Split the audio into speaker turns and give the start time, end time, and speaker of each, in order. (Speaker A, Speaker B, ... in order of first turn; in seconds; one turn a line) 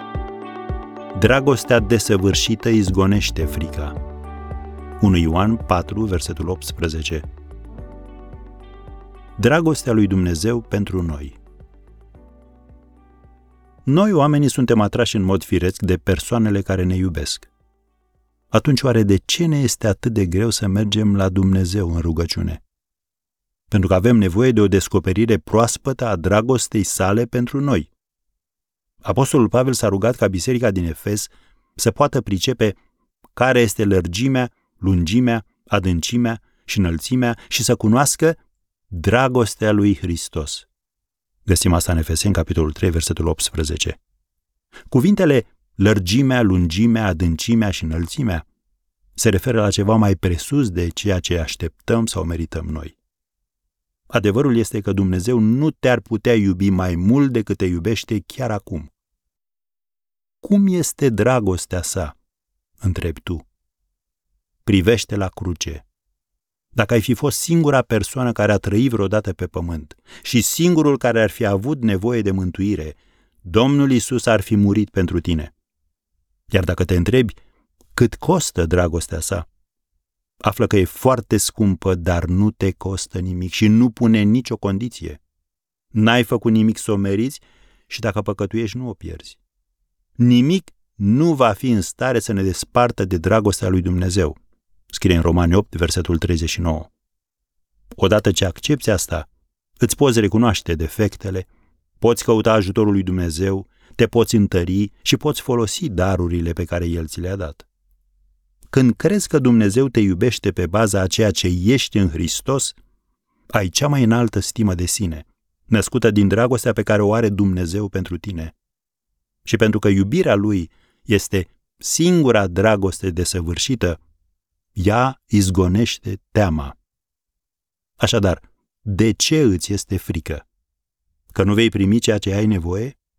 Speaker A: 1.1-4.0
Speaker A: 5.0-7.3
Speaker A: 9.4-11.4
Speaker A: 13.8-17.5
Speaker A: 18.5-22.6
Speaker A: 23.7-27.9
Speaker A: 29.0-32.8
Speaker A: 33.4-38.4
Speaker A: 38.9-40.7
Speaker A: 41.5-44.0
Speaker A: 44.9-48.5
Speaker A: 49.1-53.0
Speaker A: 54.1-58.9
Speaker A: 60.4-62.2
Speaker A: 62.8-63.5
Speaker A: 64.7-65.8
Speaker A: 66.8-75.5
Speaker A: 76.5-77.4
Speaker A: 78.0-79.5
Speaker A: 80.4-85.2
Speaker A: 85.9-89.4
Speaker A: 90.2-94.4
Speaker A: 94.9-96.9
Speaker A: 98.0-99.3
Speaker A: 99.8-101.5
Speaker A: 102.0-107.7
Speaker A: 108.7-112.8
Speaker A: 113.5-118.5
Speaker A: 119.5-124.0
Speaker A: 124.8-126.8
Speaker A: 128.0-130.4
Speaker A: 131.3-133.0